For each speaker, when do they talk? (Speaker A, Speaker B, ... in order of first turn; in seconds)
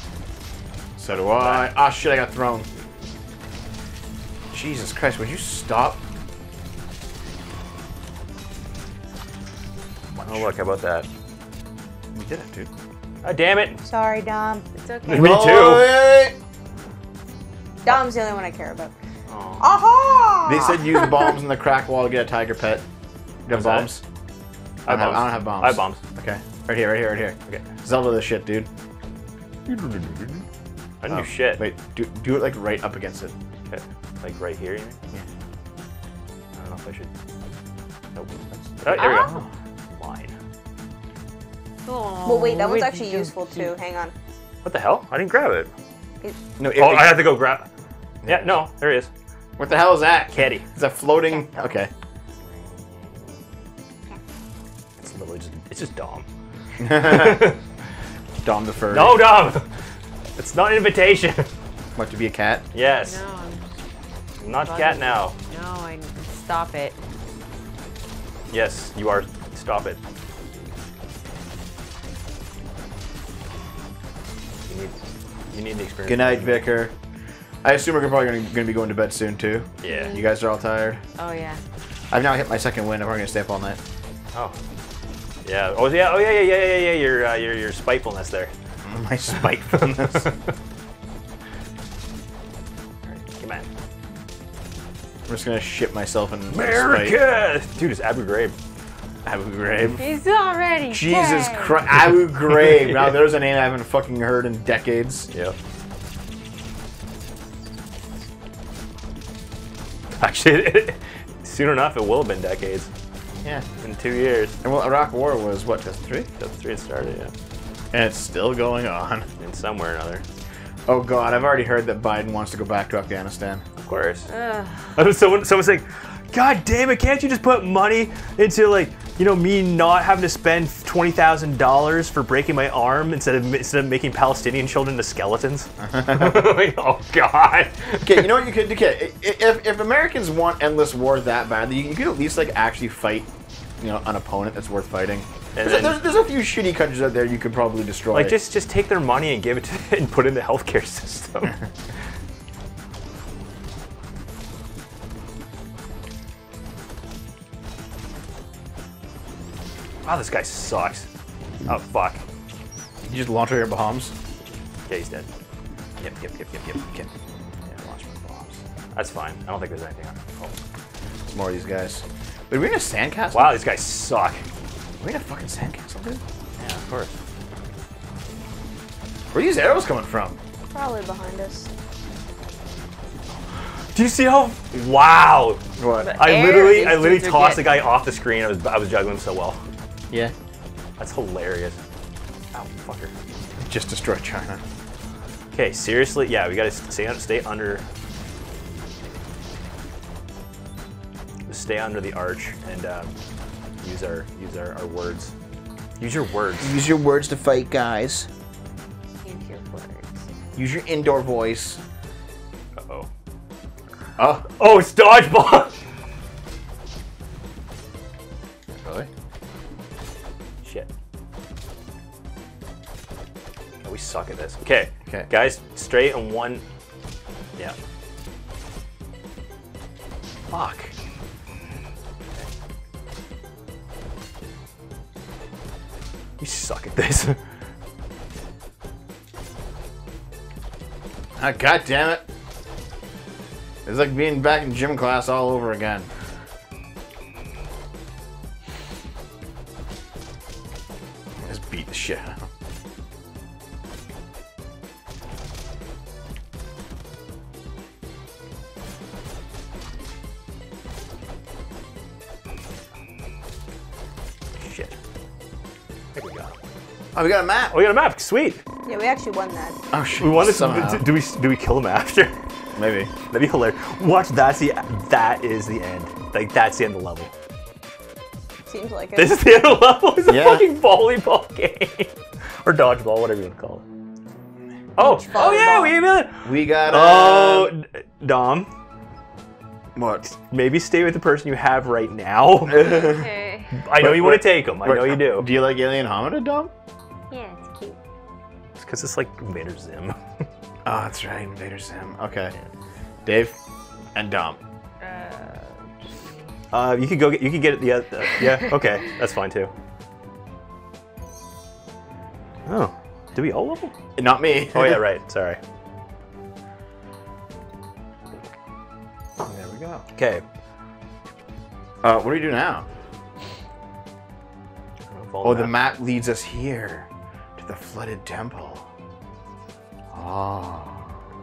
Speaker A: 1.0-2.7, 4.5-6.0, 12.2-12.7, 15.1-16.4, 20.4-22.8, 23.5-24.0, 24.9-28.7, 29.7-30.4, 31.1-33.3, 38.2-39.5, 46.6-47.4, 48.2-48.6, 49.6-51.9, 56.8-57.5, 58.4-59.2, 62.0-62.6, 76.1-76.9, 77.6-81.0, 82.1-83.8, 88.8-90.3, 95.3-97.2, 99.2-100.0, 100.9-105.3, 114.6-116.3, 117.9-119.3, 120.9-123.6, 135.9-136.5, 138.0-148.4, 163.1-164.1, 166.2-167.1, 167.8-168.6, 171.3-173.6, 175.0-176.2, 179.3-180.4, 185.8-186.2, 193.6-194.6, 206.6-208.3, 210.6-211.8, 214.2-214.5, 218.7-219.1, 241.4-242.2, 243.9-246.1, 251.4-252.5, 267.1-267.8, 269.9-271.1, 272.8-273.1, 280.3-280.7, 286.4-287.7, 290.0-290.4, 292.7-293.3, 293.9-296.7, 300.9-302.5, 303.2-303.6, 304.1-304.6, 314.2-315.0, 319.4-320.1, 322.0-322.9, 325.4-328.9, 330.1-331.1
Speaker B: 1.1-1.7, 10.2-11.1, 13.2-13.8, 15.1-16.0, 19.3-19.6, 23.5-23.9, 24.9-26.0, 31.0-31.6, 33.7-35.0, 36.6-37.1, 38.8-40.4, 44.6-45.7, 46.8-47.7, 48.3-49.1, 50.3-50.7, 55.0-56.3, 56.9-57.6, 58.9-59.7, 60.4-61.5, 62.7-63.2, 64.4-65.3, 68.5-70.0, 74.7-74.9, 75.5-76.7, 79.8-80.2, 85.5-88.5, 93.0-93.7, 96.5-98.5, 102.4-103.3, 105.3-105.6, 110.2-112.9, 113.8-114.6, 116.4-117.3, 119.4-120.2, 123.8-124.3, 124.9-138.3, 145.6-146.0, 148.1-151.6, 160.0-161.1, 161.7-162.2, 164.9-165.3, 167.7-170.6, 173.3-174.4, 176.6-177.2, 183.9-185.6, 186.2-189.6, 191.0-191.8, 192.5-193.1, 195.5-197.9, 201.5-203.1, 203.8-205.3, 206.0-206.8, 212.8-213.1, 214.6-215.7, 220.6-220.9, 223.8-226.6, 230.5-230.9, 236.4-237.4, 264.6-265.0, 266.1-266.6, 267.7-268.6, 270.2-272.3, 273.2-277.3, 279.2-283.9, 285.0-288.7, 290.5-293.1, 293.8-295.5, 298.8-300.2, 306.7-309.7, 312.7-313.9, 314.7-315.6, 320.1-320.4, 325.1-325.8
Speaker C: 13.8-14.7, 17.8-18.9, 19.6-21.4, 42.2-44.1, 180.7-181.7, 268.9-269.8, 278.7-279.4, 285.0-285.9
Speaker D: 14.7-15.5, 38.9-39.4, 41.8-43.8, 63.0-63.7, 64.5-67.0, 79.9-80.3, 81.2-81.6, 99.8-101.8, 124.3-125.0, 186.0-187.8, 209.2-210.3, 292.8-293.8, 297.3-298.0, 305.0-306.3